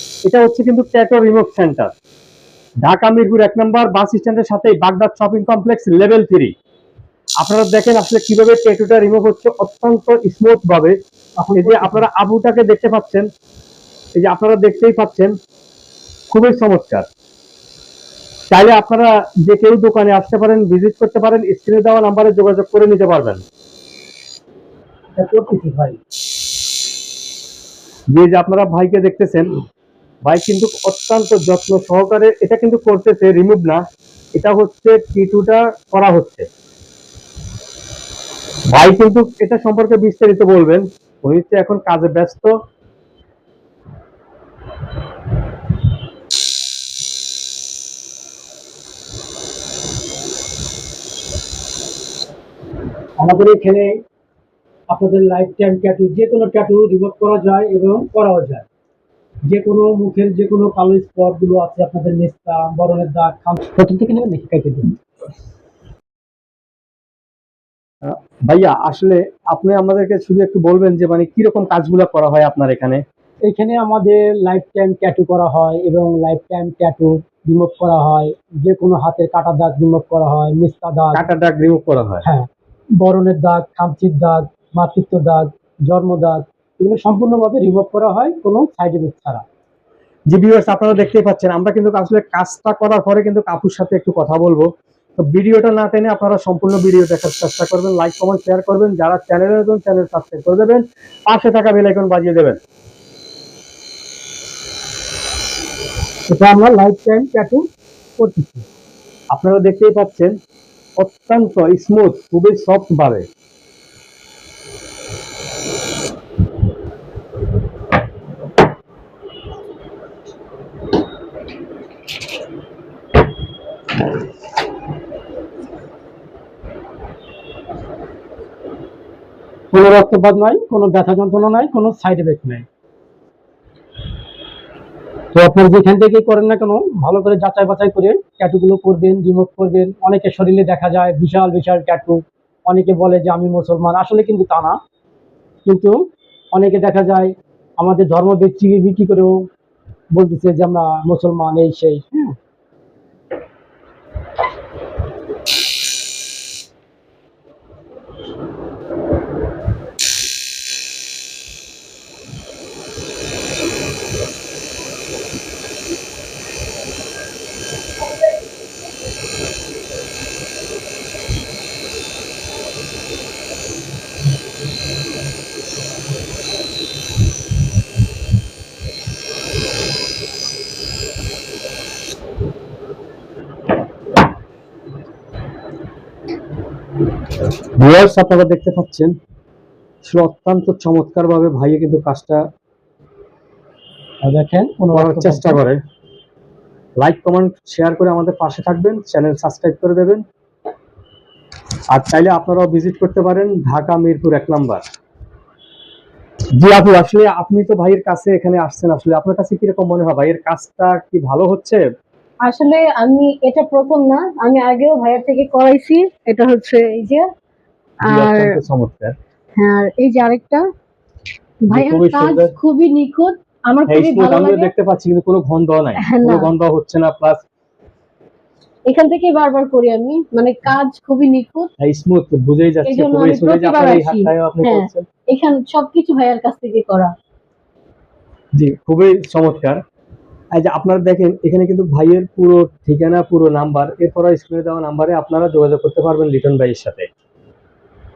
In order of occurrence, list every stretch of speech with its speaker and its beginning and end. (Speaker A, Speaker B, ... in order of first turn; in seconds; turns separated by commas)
Speaker A: 0.2-1.9, Speaker A: 2.8-6.5, Speaker A: 7.4-11.0, Speaker B: 11.4-12.1, Speaker A: 11.6-13.3, Speaker A: 14.2-15.3, Speaker A: 16.3-17.1, Speaker A: 18.5-23.4, Speaker B: 25.2-26.0, Speaker A: 28.1-29.5, Speaker A: 30.2-33.8, Speaker A: 34.3-36.5, Speaker A: 38.7-42.5, Speaker B: 53.2-54.0, Speaker B: 54.9-58.6, Speaker B: 59.5-65.0, Speaker A: 68.0-73.0, Speaker B: 73.4-81.3, Speaker A: 81.1-82.2, Speaker B: 82.2-89.4, Speaker A: 90.3-102.6, Speaker B: 106.3-107.7, Speaker B: 108.2-108.7, Speaker A: 109.3-110.3, Speaker A: 111.0-113.3, Speaker B: 129.7-132.7, Speaker B: 135.3-144.8, Speaker B: 145.7-145.9, Speaker B: 146.5-149.5, Speaker B: 150.1-152.4, Speaker A: 187.8-189.1, Speaker A: 190.0-192.4, Speaker B: 194.2-195.6, Speaker A: 194.9-195.8, Speaker A: 197.0-200.2, Speaker A: 201.9-204.8, Speaker A: 206.6-211.8, Speaker C: 212.4-217.3, Speaker A: 218.1-219.2, Speaker C: 218.1-218.6, Speaker C: 219.6-220.7, Speaker A: 221.7-222.5, Speaker C: 221.7-224.7, Speaker A: 223.9-227.4, Speaker C: 226.0-226.5, Speaker C: 228.9-231.7, Speaker A: 231.8-235.1, Speaker C: 232.9-237.1, Speaker A: 238.5-239.8, Speaker A: 240.5-247.1